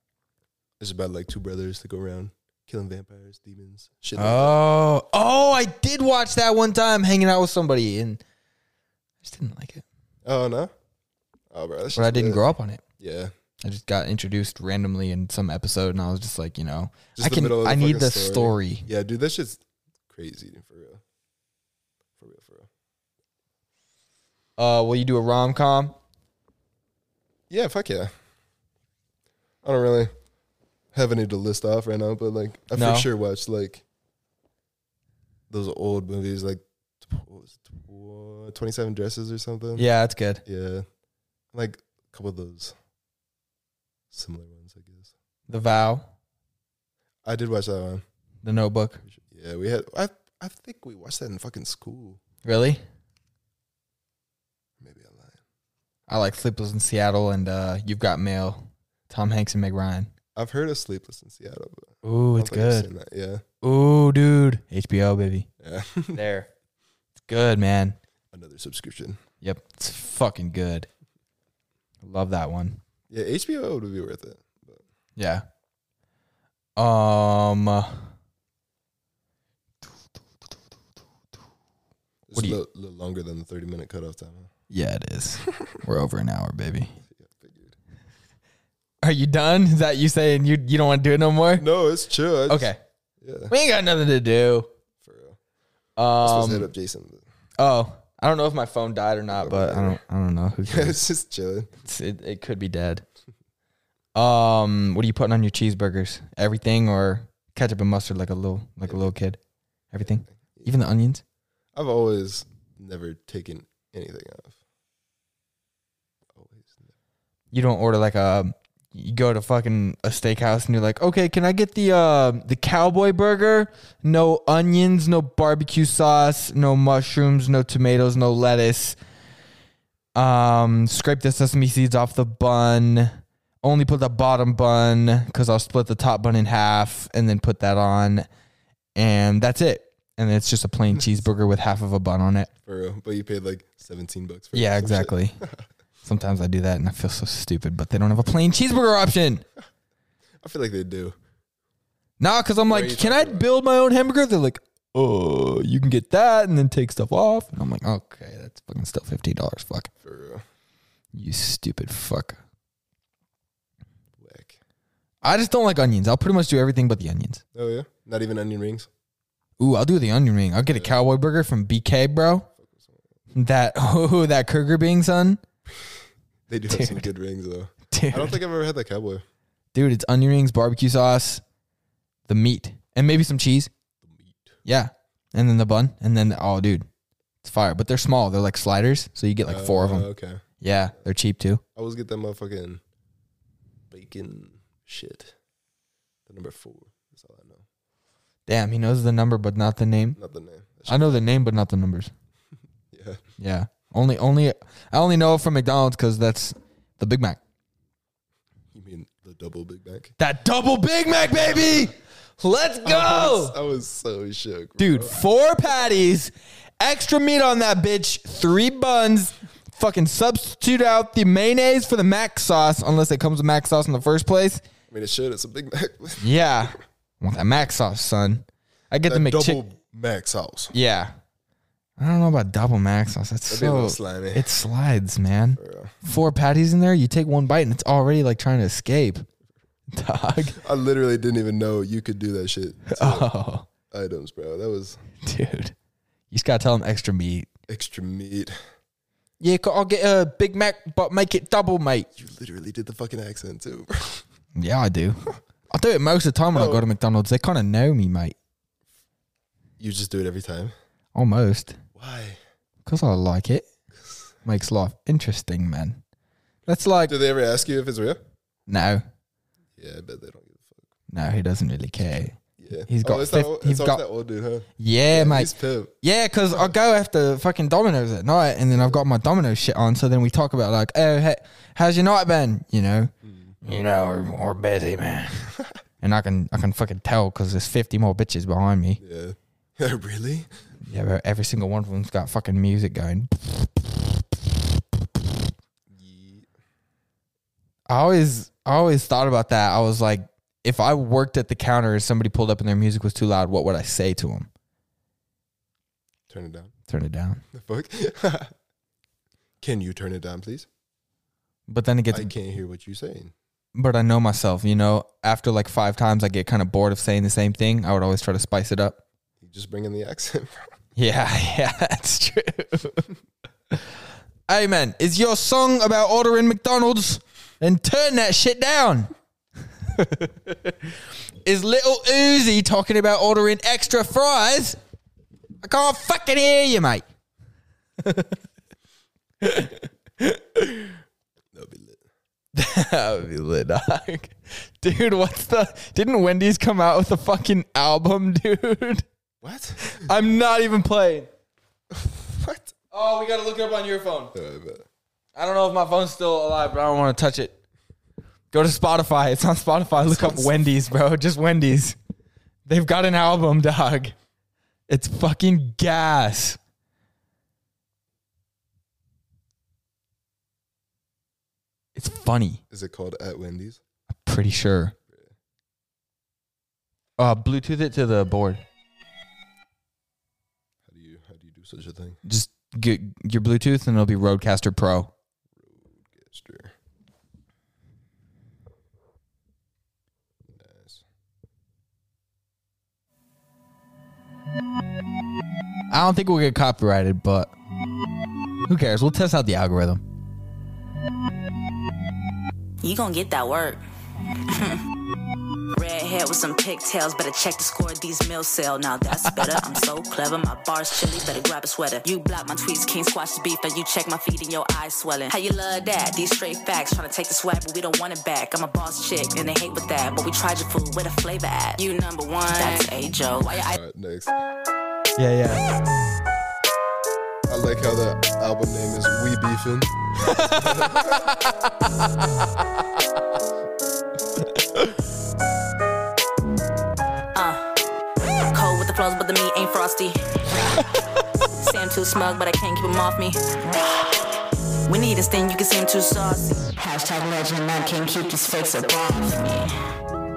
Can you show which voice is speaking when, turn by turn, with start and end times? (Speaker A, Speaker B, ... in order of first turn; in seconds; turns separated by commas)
Speaker A: 0.8-4.6, Speaker B: 4.2-8.2, Speaker B: 9.2-9.8, Speaker A: 10.2-10.7, Speaker A: 11.5-12.4, Speaker B: 11.9-12.8, Speaker A: 13.0-13.3, Speaker B: 13.6-18.9, Speaker A: 17.2-21.0, Speaker A: 22.2-22.7, Speaker B: 24.6-25.9, Speaker A: 27.5-28.1, Speaker A: 29.6-30.1, Speaker A: 30.9-33.8, Speaker B: 32.7-33.1, Speaker A: 35.5-39.9, Speaker B: 39.8-40.4, Speaker A: 40.5-40.9, Speaker A: 41.5-42.8, Speaker A: 44.1-45.1, Speaker B: 45.5-46.1, Speaker A: 47.2-48.0, Speaker B: 48.4-49.0, Speaker A: 49.0-52.2, Speaker B: 52.4-52.8, Speaker A: 54.8-55.4, Speaker B: 56.1-60.1, Speaker A: 60.4-63.4, Speaker B: 62.0-62.9, Speaker B: 63.6-65.5, Speaker A: 65.6-66.2, Speaker B: 66.1-66.5, Speaker B: 67.3-68.0, Speaker A: 68.3-69.2, Speaker B: 69.4-70.9, Speaker B: 72.0-72.8, Speaker A: 73.1-74.8, Speaker B: 75.2-75.4, Speaker B: 76.8-78.1, Speaker A: 82.3-84.5, Speaker B: 84.7-87.0, Speaker A: 87.1-87.8, Speaker B: 89.0-91.6, Speaker A: 91.6-93.5, Speaker B: 92.5-92.8, Speaker B: 93.5-94.7, Speaker A: 95.0-95.4, Speaker B: 96.0-96.7, Speaker A: 96.2-97.2, Speaker B: 97.6-101.0, Speaker A: 99.3-100.0, Speaker A: 100.6-101.7, Speaker B: 101.8-103.0, Speaker B: 104.1-109.4, Speaker A: 108.9-109.1, Speaker B: 109.9-111.2, Speaker A: 110.0-110.8, Speaker A: 111.8-114.6, Speaker A: 116.3-116.9, Speaker B: 117.5-129.0, Speaker B: 130.1-138.3, Speaker B: 138.9-142.5, Speaker A: 142.7-145.6, Speaker B: 144.5-145.4, Speaker B: 146.0-149.4, Speaker A: 150.4-151.2, Speaker B: 152.2-159.9, Speaker A: 152.7-153.5, Speaker A: 160.0-160.4, Speaker B: 161.1-162.4, Speaker A: 164.2-164.6, Speaker B: 165.2-167.4, Speaker A: 167.5-168.9, Speaker B: 169.6-172.5, Speaker A: 170.7-170.9, Speaker A: 172.6-173.0, Speaker B: 173.3-175.4, Speaker A: 176.5-179.2, Speaker B: 176.7-177.1, Speaker B: 177.9-178.4, Speaker B: 179.7-181.4, Speaker B: 182.3-183.7, Speaker A: 184.0-184.6, Speaker B: 184.6-186.9, Speaker B: 187.4-190.1, Speaker A: 189.4-190.4, Speaker B: 190.6-191.6, Speaker A: 191.8-192.8, Speaker A: 193.9-195.4, Speaker A: 196.2-197.6, Speaker B: 198.5-200.2, Speaker A: 200.2-201.2, Speaker B: 200.9-202.1, Speaker A: 202.9-203.2, Speaker B: 203.4-207.4, Speaker A: 208.7-210.1, Speaker B: 210.2-213.6, Speaker A: 211.5-211.8, Speaker A: 212.8-215.2, Speaker B: 214.8-224.6, Speaker A: 224.9-226.3, Speaker B: 226.2-229.6, Speaker A: 229.1-230.7, Speaker B: 230.7-231.1, Speaker B: 232.0-239.3, Speaker A: 233.5-234.6, Speaker A: 235.6-235.9, Speaker B: 239.9-240.6, Speaker A: 240.5-243.3, Speaker B: 242.9-243.7, Speaker A: 243.9-245.0, Speaker B: 245.2-245.8, Speaker B: 246.3-247.5, Speaker A: 247.7-248.6, Speaker B: 249.4-252.1, Speaker A: 252.2-254.2, Speaker B: 254.6-258.3, Speaker A: 256.5-256.9, Speaker A: 259.8-260.7, Speaker B: 261.1-261.8, Speaker A: 261.9-262.4, Speaker B: 262.9-263.7, Speaker B: 264.4-266.0, Speaker B: 266.7-267.1, Speaker A: 267.1-268.2, Speaker B: 268.7-269.0, Speaker A: 269.8-270.9, Speaker B: 271.1-274.0, Speaker A: 272.0-275.9, Speaker B: 274.8-283.1, Speaker A: 276.5-276.8, Speaker A: 278.7-279.0, Speaker A: 283.2-283.6, Speaker B: 283.6-289.0, Speaker A: 289.0-290.5, Speaker B: 290.9-295.4, Speaker A: 295.9-296.5, Speaker B: 297.9-304.5, Speaker A: 306.3-306.7, Speaker B: 306.9-307.4, Speaker A: 307.5-308.5, Speaker A: 309.6-310.7, Speaker B: 311.7-312.3, Speaker A: 312.1-313.3, Speaker B: 313.8-319.0, Speaker A: 319.4-320.7, Speaker B: 320.9-323.1, Speaker B: 324.5-329.1, Speaker B: 329.9-330.9, Speaker B: 331.4-334.8, Speaker B: 335.6-337.0, Speaker B: 338.0-338.4, Speaker B: 339.4-341.0, Speaker A: 341.5-342.0, Speaker B: 342.5-349.0, Speaker A: 349.4-350.1, Speaker B: 349.8-351.3, Speaker A: 351.9-352.7, Speaker B: 352.9-354.3, Speaker A: 354.3-354.9, Speaker B: 355.4-357.6, Speaker B: 358.5-362.0, Speaker A: 359.9-360.6, Speaker B: 362.7-364.1, Speaker B: 364.9-366.6, Speaker B: 371.9-372.6, Speaker A: 372.7-373.8, Speaker B: 374.2-374.9, Speaker A: 375.1-375.3, Speaker B: 377.2-378.6, Speaker A: 380.8-382.2, Speaker B: 382.2-385.1, Speaker A: 385.6-386.8, Speaker A: 390.5-391.0, Speaker B: 395.9-397.5, Speaker B: 398.7-400.0, Speaker C: 402.8-403.8, Speaker C: 404.5-404.8, Speaker C: 405.7-423.8, Speaker A: 423.7-424.3, Speaker B: 425.2-425.6, Speaker A: 427.5-431.3, Speaker B: 430.2-432.4, Speaker B: 434.4-434.9, Speaker C: 437.3-437.7, Speaker C: 438.5-440.9, Speaker C: 441.5-444.3, Speaker C: 444.9-449.8